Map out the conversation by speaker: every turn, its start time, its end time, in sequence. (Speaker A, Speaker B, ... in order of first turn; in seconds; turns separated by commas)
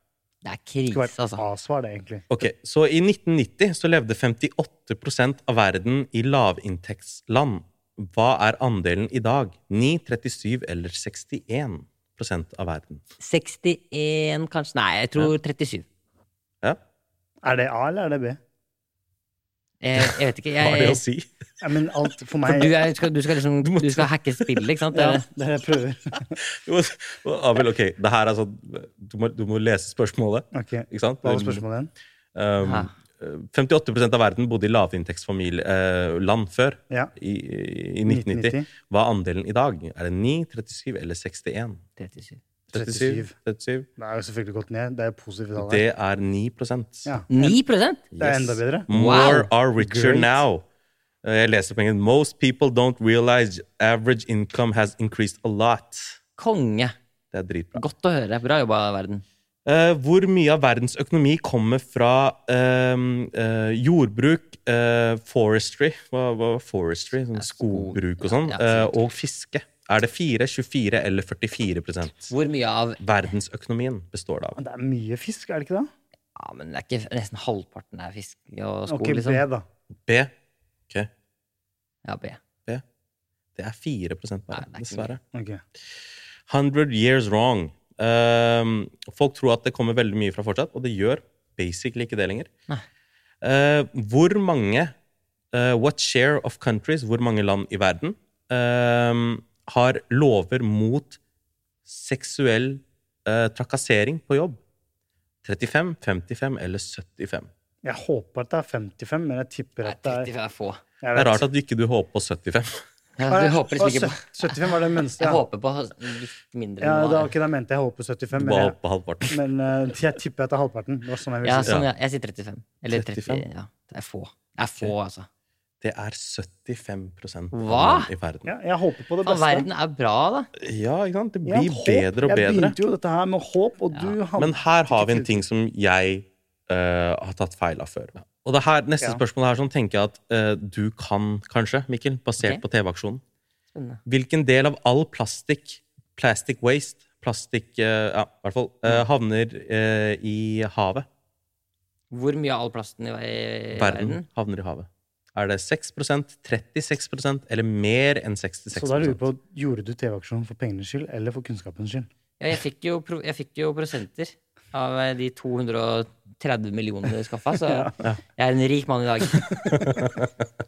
Speaker A: 0.4-1.4, Speaker B: 0.9-2.3, Speaker C: 2.3-13.0, Speaker A: 13.2-15.9, Speaker B: 17.4-18.4, Speaker A: 19.8-21.0, Speaker C: 20.0-21.3, Speaker B: 21.6-22.7, Speaker A: 22.5-25.2, Speaker C: 23.6-24.1, Speaker B: 24.9-26.3, Speaker C: 26.4-31.6, Speaker B: 30.5-31.9, Speaker C: 32.4-41.8, Speaker A: 32.6-32.9, Speaker B: 38.1-38.7, Speaker A: 42.0-42.4, Speaker C: 42.7-43.9, Speaker B: 42.7-43.3, Speaker B: 44.0-45.8, Speaker C: 45.6-47.1, Speaker B: 47.1-47.6, Speaker A: 47.3-48.0, Speaker C: 48.1-50.6, Speaker B: 48.2-50.4, Speaker A: 48.9-49.5, Speaker C: 51.2-56.2, Speaker A: 56.4-56.9, Speaker C: 57.3-57.8, Speaker A: 57.8-59.2, Speaker C: 59.7-72.3, Speaker A: 67.4-69.0, Speaker A: 72.3-73.0, Speaker C: 73.0-74.6, Speaker B: 74.6-75.9, Speaker A: 76.4-79.5, Speaker B: 78.9-79.7, Speaker A: 82.0-82.4, Speaker C: 83.6-85.2, Speaker A: 84.5-85.1, Speaker B: 85.3-85.6, Speaker C: 86.5-92.5, Speaker C: 93.4-94.9, Speaker C: 95.5-101.2, Speaker C: 101.9-104.6, Speaker C: 105.4-107.5, Speaker B: 107.8-110.3, Speaker A: 109.8-110.8, Speaker B: 111.0-111.5, Speaker C: 111.2-112.8, Speaker A: 113.2-117.3, Speaker B: 113.3-115.4, Speaker B: 116.8-118.8, Speaker C: 118.3-119.4, Speaker B: 119.3-121.8, Speaker A: 121.4-125.3, Speaker C: 122.9-123.5, Speaker C: 125.8-128.5, Speaker A: 127.5-128.1, Speaker B: 128.4-129.7, Speaker A: 129.2-130.5, Speaker C: 130.6-132.8, Speaker B: 131.4-135.4, Speaker C: 134.4-143.2, Speaker A: 143.7-144.0, Speaker C: 144.1-151.1, Speaker A: 152.1-154.2, Speaker C: 153.8-159.2, Speaker B: 158.7-162.1, Speaker A: 162.4-169.6, Speaker B: 167.7-167.9, Speaker C: 169.7-170.3